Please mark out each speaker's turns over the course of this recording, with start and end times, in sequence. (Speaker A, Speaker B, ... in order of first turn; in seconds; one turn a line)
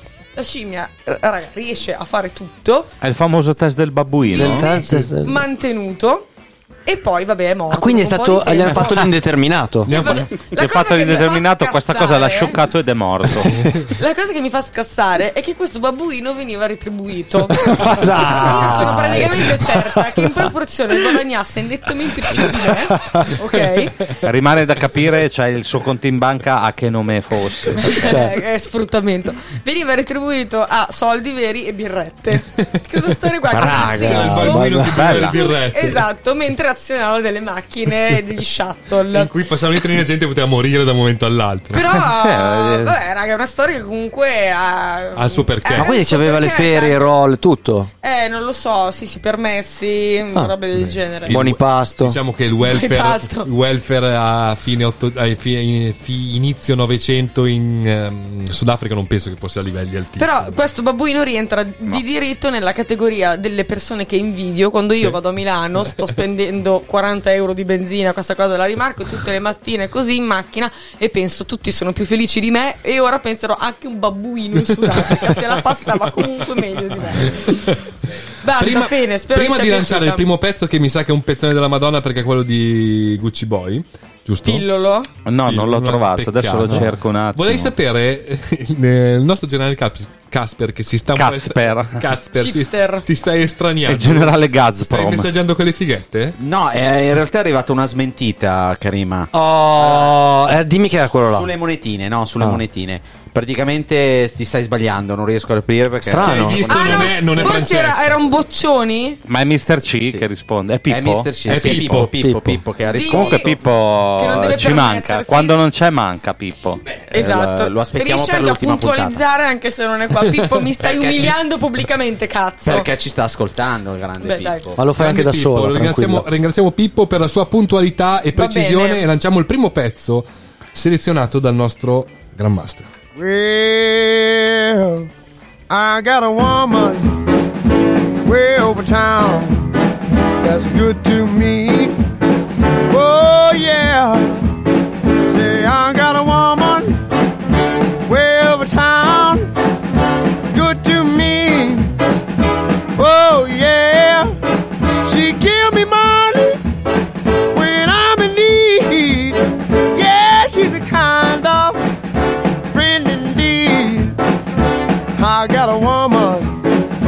Speaker A: 0.3-2.9
Speaker B: 3.0-4.7
Speaker A: 4.2-6.3
Speaker C: 4.3-5.5
Speaker A: 6.9-9.1
Speaker C: 7.7-9.9
Speaker A: 9.9-12.6
Speaker D: 9.9-10.3
Speaker B: 10.4-13.7
Speaker C: 13.4-13.7
Speaker A: 13.9-24.1
Speaker C: 17.6-20.4
Speaker B: 24.2-28.2
Speaker A: 27.8-39.3
Speaker C: 28.0-28.4
Speaker C: 33.5-35.2
Speaker D: 33.5-36.0
Speaker B: 34.9-35.3
Speaker D: 39.1-41.9
Speaker A: 41.7-47.1
Speaker B: 41.8-43.0
Speaker D: 45.2-45.9
Speaker C: 45.8-47.9
Speaker A: 48.0-51.4
Speaker D: 50.8-60.5
Speaker C: 51.3-52.2
Speaker A: 52.6-53.5
Speaker A: 60.2-77.8
Speaker D: 75.0-75.5
Speaker D: 77.3-77.8
Speaker A: 78.4-80.3
Speaker D: 78.5-84.7
Speaker A: 84.4-85.1
Speaker B: 85.3-87.7
Speaker D: 85.4-96.4
Speaker B: 91.2-92.0
Speaker A: 92.4-93.1
Speaker B: 93.9-95.3
Speaker E: 96.4-100.2
Speaker C: 99.3-101.5
Speaker E: 101.2-107.5
Speaker C: 106.0-106.6
Speaker D: 106.2-108.2
Speaker A: 106.7-109.2
Speaker B: 109.3-111.6
Speaker E: 109.9-110.3
Speaker E: 110.9-113.6
Speaker D: 111.5-112.1
Speaker C: 111.7-112.6
Speaker A: 112.9-115.6
Speaker B: 113.0-116.8
Speaker E: 116.9-119.2
Speaker A: 117.1-122.9
Speaker E: 120.8-121.4
Speaker E: 122.6-124.8
Speaker A: 124.2-124.6
Speaker C: 124.8-126.3
Speaker D: 125.0-132.9
Speaker A: 128.3-129.1
Speaker F: 133.2-135.0
Speaker F: 135.7-137.1
Speaker F: 138.2-139.6
Speaker F: 140.4-141.9
Speaker F: 142.9-144.4
Speaker F: 145.3-147.0
Speaker F: 148.1-149.5
Speaker F: 150.5-151.9
Speaker F: 153.0-154.3
Speaker F: 155.1-156.6
Speaker F: 157.5-159.4
Speaker F: 159.9-161.8
Speaker F: 162.7-164.1
Speaker F: 165.2-166.5